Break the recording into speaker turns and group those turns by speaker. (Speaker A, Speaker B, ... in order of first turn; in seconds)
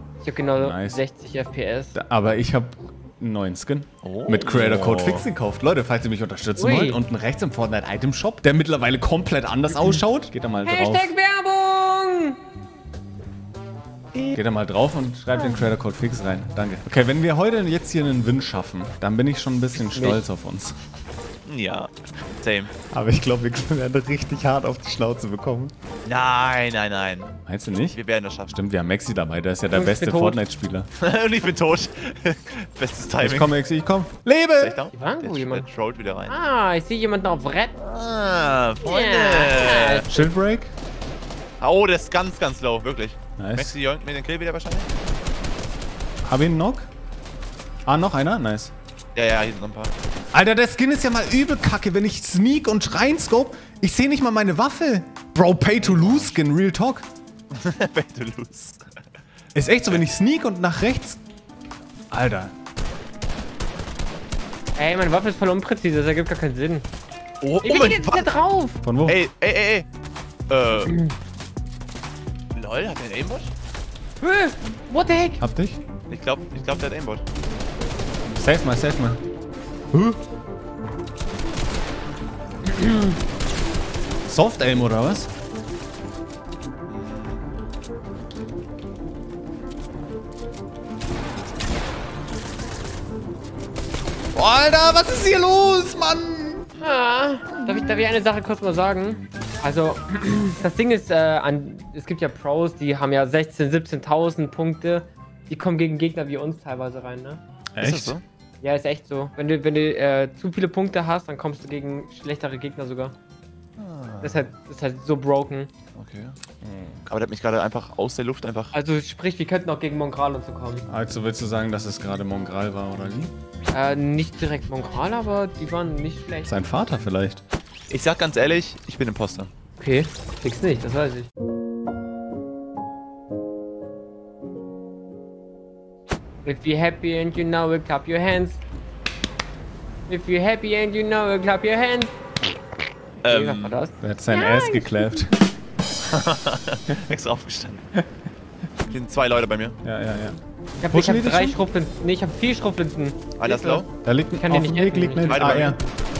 Speaker A: 0.2-2.0, 6.6-7.0, 10.7-12.4, 19.8-20.2, 29.7-30.4, 34.9-35.7, 36.3-37.7, 38.8-40.1, 64.8-66.9, 67.6-68.8, 70.9-71.2, 74.2-75.4, 82.7-83.2, 96.8-107.4, 108.6-113.2, 114.2-115.7, 118.7-120.9, 123.7-126.5, 129.8-131.3, 136.4-138.6, 140.1-142.1, 143.2-145.2, 150.8-153.9, 154.4-155.4
Speaker B: 0.6-1.0, 1.9-11.1, 14.3-20.8, 22.9-25.7, 27.5-28.0, 28.5-30.9, 33.2-34.8, 40.1-40.7, 43.4-43.7, 46.2-46.9, 47.9-48.7, 50.3-57.0, 59.5-61.2, 62.1-62.5, 68.8-69.2, 75.4-75.8, 78.3-79.2, 79.9-80.2, 84.3-85.3, 94.3-96.7, 107.8-108.2, 116.6-117.0, 120.9-123.3, 126.5-127.4, 144.0-145.4, 149.8-150.4, 150.9-151.6, 154.0-155.8
Speaker C: 4.0-5.3, 21.5-22.7, 26.1-27.3, 27.9-28.5, 31.0-33.5, 34.6-36.3, 37.8-40.2, 41.6-44.9, 49.1-49.9, 55.8-56.4, 57.5-58.8, 67.4-68.3, 69.1-69.9, 70.5-70.9, 72.5-73.5, 76.1-77.2, 86.9-87.4, 107.8-108.2, 113.8-114.4, 116.0-116.3, 117.1-118.8, 127.9-129.5, 143.2-143.8, 146.1-147.9, 148.9-149.8, 153.4-153.9, 155.2-155.8